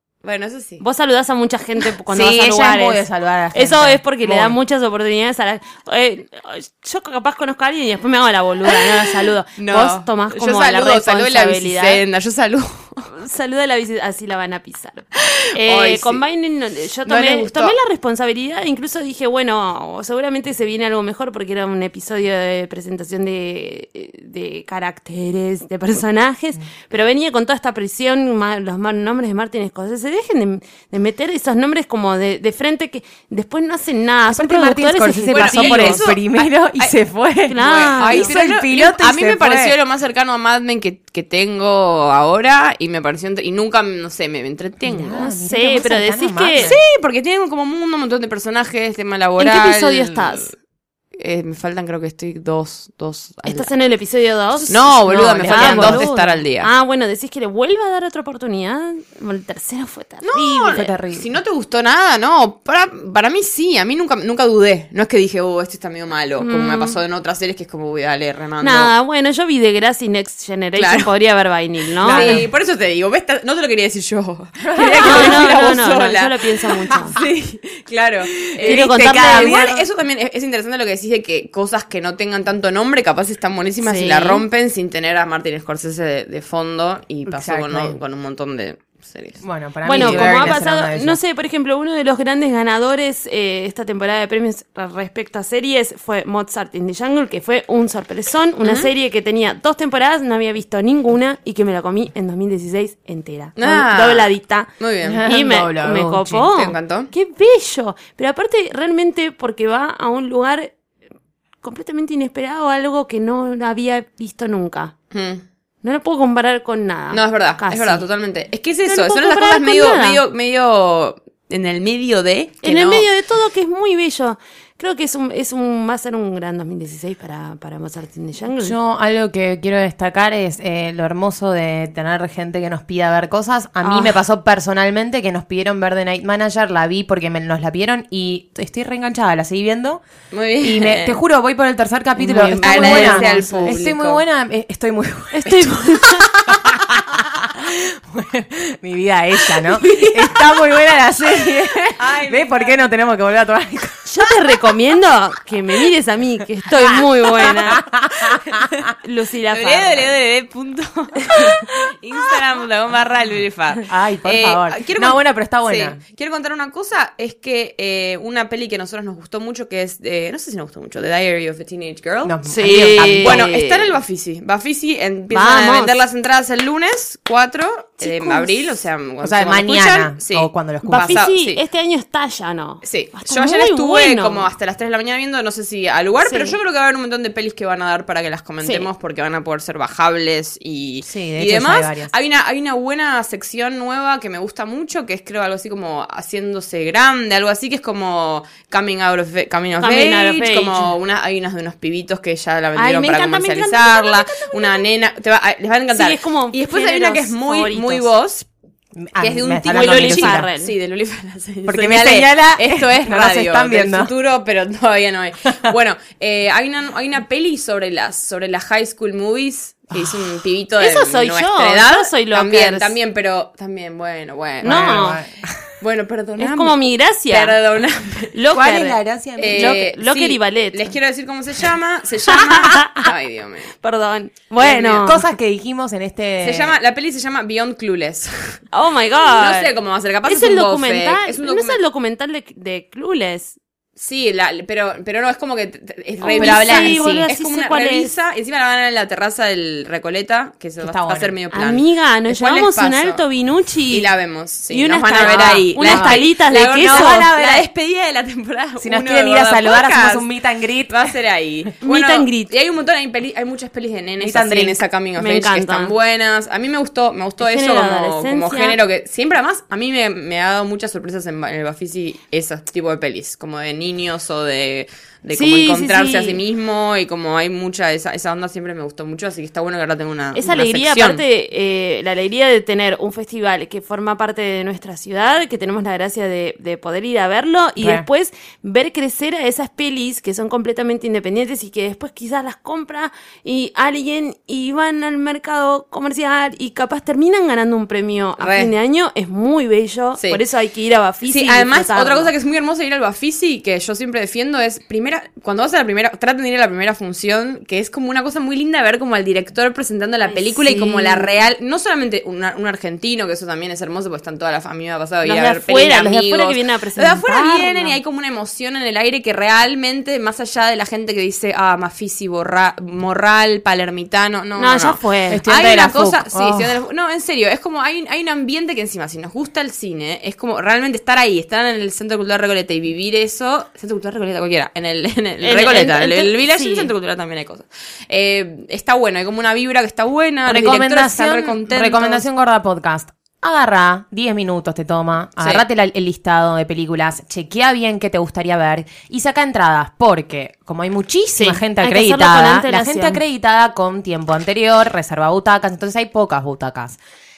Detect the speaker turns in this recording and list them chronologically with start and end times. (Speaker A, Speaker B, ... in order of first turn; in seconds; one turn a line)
Speaker A: 0.2-0.8
Speaker B: 0.8-12.0
Speaker C: 2.1-4.6
Speaker A: 8.7-13.1
Speaker B: 13.1-36.0
Speaker A: 15.2-16.2
Speaker A: 17.1-17.8
Speaker C: 34.3-39.8
Speaker A: 35.3-37.0
Speaker B: 37.5-38.3
Speaker A: 37.6-45.3
Speaker C: 44.8-46.8
Speaker B: 45.2-46.7
Speaker A: 46.6-50.5
Speaker B: 49.4-50.5
Speaker A: 51.2-53.7
Speaker B: 53.5-60.9
Speaker A: 54.7-56.7
Speaker C: 55.1-56.1
Speaker A: 60.2-68.9
Speaker C: 60.7-61.3
Speaker B: 66.4-67.0
Speaker B: 68.6-72.5
Speaker A: 70.8-71.1
Speaker A: 72.0-90.6
Speaker C: 72.0-72.5
Speaker C: 74.6-75.7
Speaker B: 75.0-77.2
Speaker C: 78.4-79.9
Speaker B: 78.6-79.7
Speaker B: 83.8-84.5
Speaker C: 87.3-88.0
Speaker C: 89.4-91.2
Speaker B: 89.8-104.7
Speaker A: 98.6-98.9
Speaker A: 103.6-105.3
Speaker C: 105.0-106.5
Speaker B: 105.2-110.7
Speaker A: 106.5-107.1
Speaker B: 111.6-114.9
Speaker A: 115.1-115.4
Speaker B: 115.8-118.0
Speaker A: 117.1-123.1
Speaker B: 118.9-120.2
Speaker B: 122.6-128.8
Speaker C: 128.6-140.0
Speaker B: 133.8-134.2
Speaker A: 140.3-141.2
Speaker C: 140.6-154.1
Speaker B: 142.2-143.8
Speaker A: 142.3-144.2
Speaker B: 145.3-146.3
Speaker B: 149.8-150.1
Speaker A: 152.0-152.8
Speaker B: 154.1-157.8
Speaker C: 156.9-158.7
Speaker B: 159.0-160.2
Speaker A: 159.5-181.6
Speaker B: 161.2-161.5
Speaker C: 163.9-166.0
Speaker C: 172.2-173.5
Speaker B: 172.5-174.0
Speaker B: 175.3-175.9
Speaker B: 178.0-178.5
Speaker C: 179.2-181.2
Speaker B: 180.8-184.5
Speaker A: 182.8-208.5
Speaker B: 186.2-186.6
Speaker B: 188.6-188.9
Speaker C: 191.0-192.1
Speaker B: 199.8-200.8
Speaker B: 202.8-204.8
Speaker B: 205.9-208.1
Speaker C: 209.0-210.5
Speaker A: 209.2-225.1
Speaker B: 209.7-210.7
Speaker C: 211.7-214.1
Speaker C: 219.9-220.4
Speaker B: 220.8-222.9
Speaker B: 224.6-225.2
Speaker C: 224.6-225.7
Speaker A: 225.8-228.3
Speaker B: 226.4-227.6
Speaker B: 228.3-229.0
Speaker C: 228.5-229.8
Speaker A: 229.4-233.7
Speaker B: 229.5-230.9
Speaker B: 232.3-233.1
Speaker B: 233.8-235.2
Speaker A: 234.6-235.1
Speaker C: 234.9-236.7
Speaker A: 236.4-238.6
Speaker B: 238.7-239.7
Speaker A: 239.2-241.8
Speaker B: 240.2-243.6
Speaker A: 244.0-253.2
Speaker B: 246.2-248.1
Speaker C: 246.4-247.3
Speaker C: 250.8-251.3
Speaker B: 251.5-254.1
Speaker A: 253.9-260.3
Speaker B: 254.7-257.3
Speaker C: 255.2-257.7
Speaker C: 258.8-261.1
Speaker A: 260.9-281.2
Speaker B: 261.8-262.5
Speaker C: 264.2-264.8
Speaker B: 265.2-265.9
Speaker B: 267.4-268.8
Speaker B: 275.3-276.4
Speaker B: 280.4-302.3
Speaker C: 287.8-288.1
Speaker A: 298.4-298.7
Speaker A: 301.2-342.2
Speaker B: 310.2-311.1
Speaker C: 310.8-311.1
Speaker B: 315.2-318.0
Speaker B: 324.6-325.5
Speaker C: 325.3-326.8
Speaker B: 335.4-336.9
Speaker C: 340.5-357.0
Speaker B: 351.4-353.2